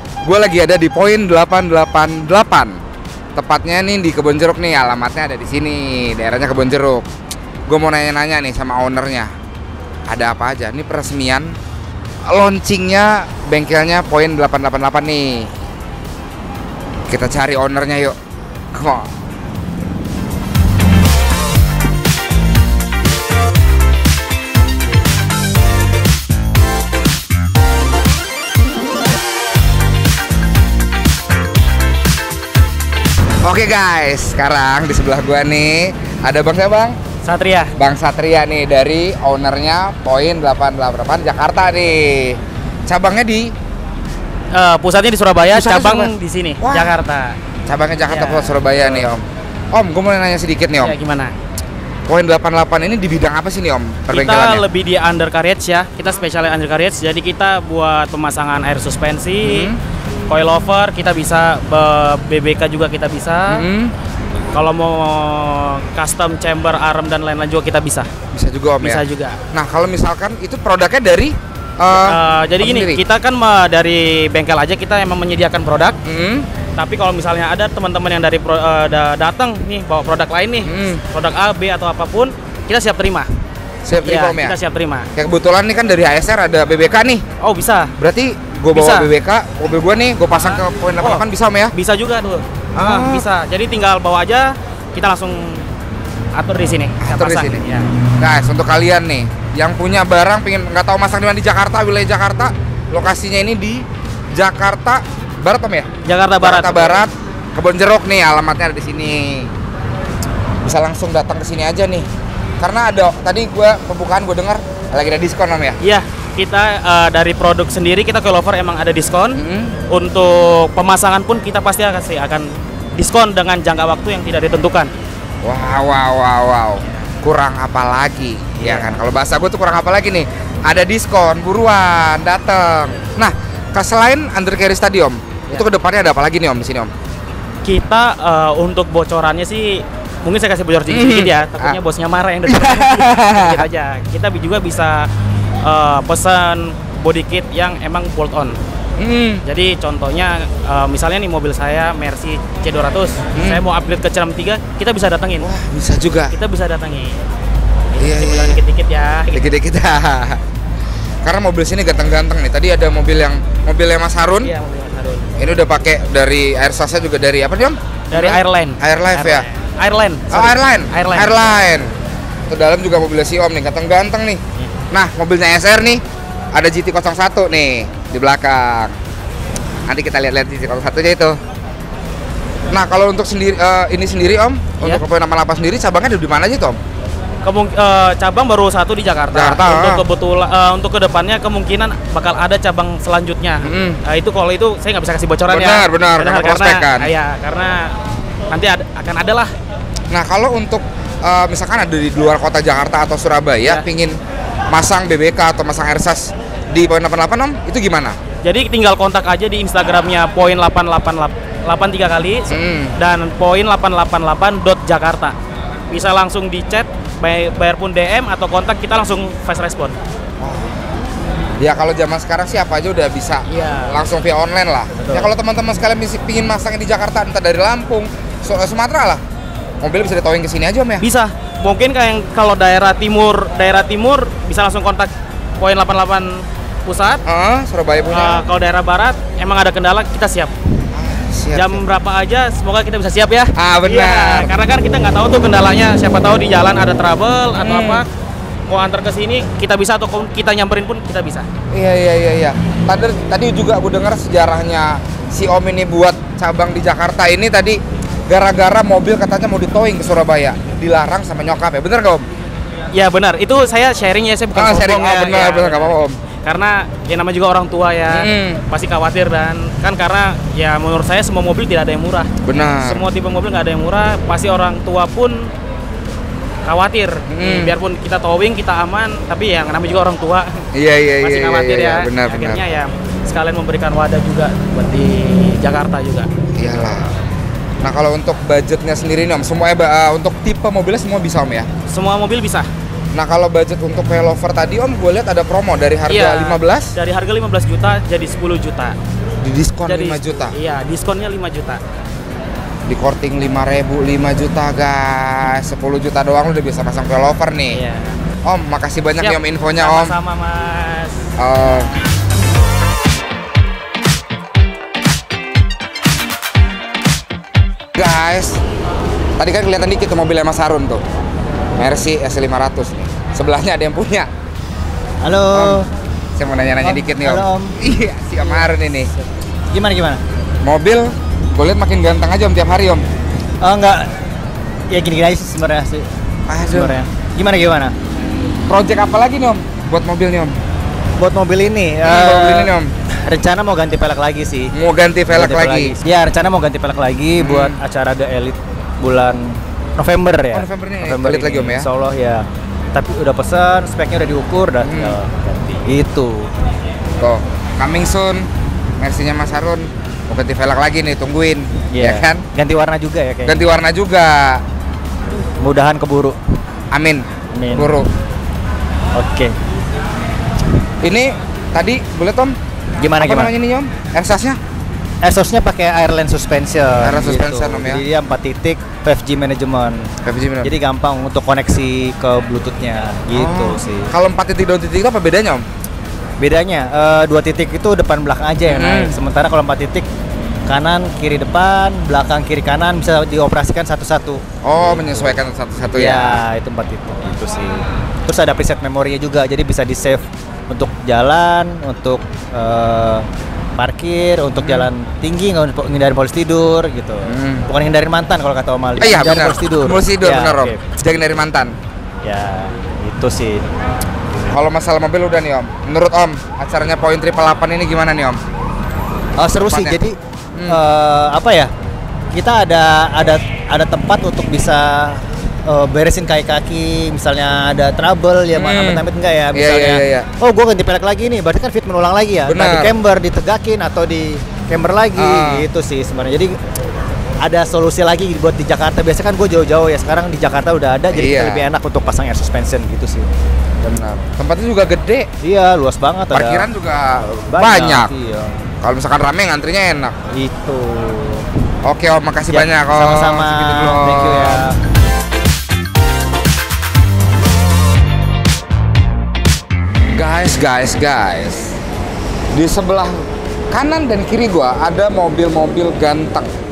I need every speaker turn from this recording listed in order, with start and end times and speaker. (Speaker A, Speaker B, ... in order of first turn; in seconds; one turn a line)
Speaker A: 0.2-2.8
Speaker A: 3.4-7.1
Speaker A: 7.7-9.3
Speaker A: 10.1-11.6
Speaker A: 12.3-15.5
Speaker A: 17.1-18.2
Speaker A: 18.7-19.1
Speaker A: 33.4-37.0
Speaker B: 37.2-37.7
Speaker A: 37.8-43.5
Speaker B: 44.5-47.4
Speaker A: 45.4-47.0
Speaker A: 47.7-51.0
Speaker B: 48.1-49.1
Speaker B: 50.8-51.4
Speaker A: 52.1-54.6
Speaker B: 54.1-59.7
Speaker A: 59.4-59.8
Speaker B: 60.3-63.6
Speaker A: 63.5-63.9
Speaker B: 64.5-68.1
Speaker A: 68.3-73.0
Speaker B: 68.8-69.4
Speaker B: 71.9-76.0
Speaker A: 76.0-76.5
Speaker B: 76.8-83.3
Speaker A: 80.6-81.0
Speaker A: 83.8-84.6
Speaker B: 84.0-85.1
Speaker A: 85.2-87.2
Speaker B: 87.4-87.9
Speaker A: 88.0-91.7
Speaker B: 88.7-89.1
Speaker B: 90.3-95.7
Speaker A: 92.8-93.3
Speaker B: 96.3-97.9
Speaker A: 97.0-97.7
Speaker A: 98.2-109.5
Speaker B: 106.1-107.0
Speaker A: 110.6-112.1
Speaker A: 112.6-115.8
Speaker B: 115.8-124.9
Speaker A: 119.3-119.8
Speaker A: 125.4-136.9
Speaker B: 128.6-129.0
Speaker B: 137.6-145.1
Speaker A: 140.9-141.8
Speaker A: 142.5-143.7
Speaker B: 145.6-148.6
Speaker A: 149.0-149.4
Speaker B: 149.4-155.5
Speaker A: 153.3-153.6
Speaker A: 155.4-156.3
Speaker B: 156.3-157.2
Speaker B: 157.9-159.5
Speaker A: 158.0-158.6
Speaker A: 159.3-160.4
Speaker A: 161.2-164.5
Speaker B: 164.4-165.3
Speaker A: 165.4-169.5
Speaker B: 168.1-171.4
Speaker A: 170.3-171.9
Speaker A: 172.5-176.0
Speaker A: 176.5-179.0
Speaker A: 179.9-181.4
Speaker A: 182.7-186.8
Speaker B: 187.4-197.9
Speaker A: 189.3-190.0
Speaker A: 193.6-194.0
Speaker A: 195.5-197.1
Speaker B: 198.5-199.5
Speaker A: 200.1-204.2
Speaker A: 204.7-208.2
Speaker B: 208.4-215.4
Speaker A: 212.5-212.9
Speaker B: 215.9-220.0
Speaker A: 220.4-220.7
Speaker A: 221.6-229.2
Speaker B: 223.5-224.0
Speaker A: 229.8-231.1
Speaker B: 231.0-237.2
Speaker A: 237.3-238.4
Speaker B: 238.1-240.5
Speaker A: 240.9-241.8
Speaker B: 241.6-248.1
Speaker A: 243.6-244.5
Speaker A: 247.6-248.1
Speaker B: 248.7-251.5
Speaker A: 251.7-262.2
Speaker B: 262.9-275.5
Speaker A: 264.5-266.2
Speaker A: 268.1-268.6
Speaker A: 272.4-273.1
Speaker B: 276.7-280.6
Speaker A: 277.3-277.8
Speaker A: 280.7-282.6
Speaker B: 281.2-286.3
Speaker A: 286.6-287.1
Speaker A: 287.8-291.7
Speaker B: 291.9-292.7
Speaker A: 293.1-296.9
Speaker B: 296.1-299.0
Speaker A: 299.4-300.5
Speaker B: 299.9-301.8
Speaker A: 302.9-307.8
Speaker B: 307.7-308.2
Speaker A: 308.4-310.2
Speaker B: 309.2-311.2
Speaker A: 311.4-311.9
Speaker A: 318.0-318.6
Speaker A: 319.4-321.0
Speaker A: 321.8-324.3
Speaker C: 325.2-325.9
Speaker A: 325.5-325.8
Speaker A: 326.4-329.1
Speaker C: 326.8-327.8
Speaker C: 329.7-330.2
Speaker A: 330.6-333.1
Speaker C: 333.6-334.2
Speaker C: 334.9-336.1
Speaker A: 336.5-337.0
Speaker C: 336.6-337.9
Speaker A: 338.7-340.6
Speaker C: 341.2-342.7
Speaker A: 342.0-342.9
Speaker C: 343.2-344.7
Speaker A: 344.7-346.0
Speaker C: 345.3-356.5
Speaker A: 347.4-347.8
Speaker A: 350.5-351.9
Speaker A: 354.8-355.2
Speaker A: 357.2-358.5
Speaker A: 359.0-362.5
Speaker C: 361.9-363.6
Speaker A: 363.4-364.6
Speaker C: 365.6-366.4
Speaker A: 366.9-368.1
Speaker C: 367.6-367.9
Speaker C: 369.2-369.6
Speaker A: 371.0-372.6
Speaker C: 373.0-373.5
Speaker A: 373.2-374.6
Speaker C: 375.2-380.1
Speaker A: 377.0-378.0
Speaker A: 380.2-380.7
Speaker C: 380.6-384.1
Speaker A: 383.3-385.6
Speaker C: 386.4-390.1
Speaker A: 388.7-389.2
Speaker C: 390.7-395.4
Speaker A: 394.6-396.4
Speaker C: 395.9-411.1
Speaker A: 404.6-404.9
Speaker A: 407.3-407.7
Speaker A: 409.0-411.8
Speaker C: 412.2-413.6
Speaker A: 414.5-418.4
Speaker C: 419.4-420.1
Speaker A: 419.5-420.0
Speaker A: 420.6-420.8
Speaker C: 420.7-421.7
Speaker C: 422.3-436.5
Speaker A: 428.5-430.3
Speaker A: 432.5-432.9
Speaker A: 435.1-435.7
Speaker C: 437.4-443.3
Speaker A: 441.1-441.7
Speaker A: 443.8-445.3
Speaker C: 445.4-446.7
Speaker A: 446.3-448.1
Speaker C: 447.5-448.5
Speaker A: 448.8-450.2
Speaker C: 450.3-451.4
Speaker A: 451.8-454.7
Speaker C: 452.5-454.8
Speaker A: 460.2-461.8
Speaker A: 462.5-466.5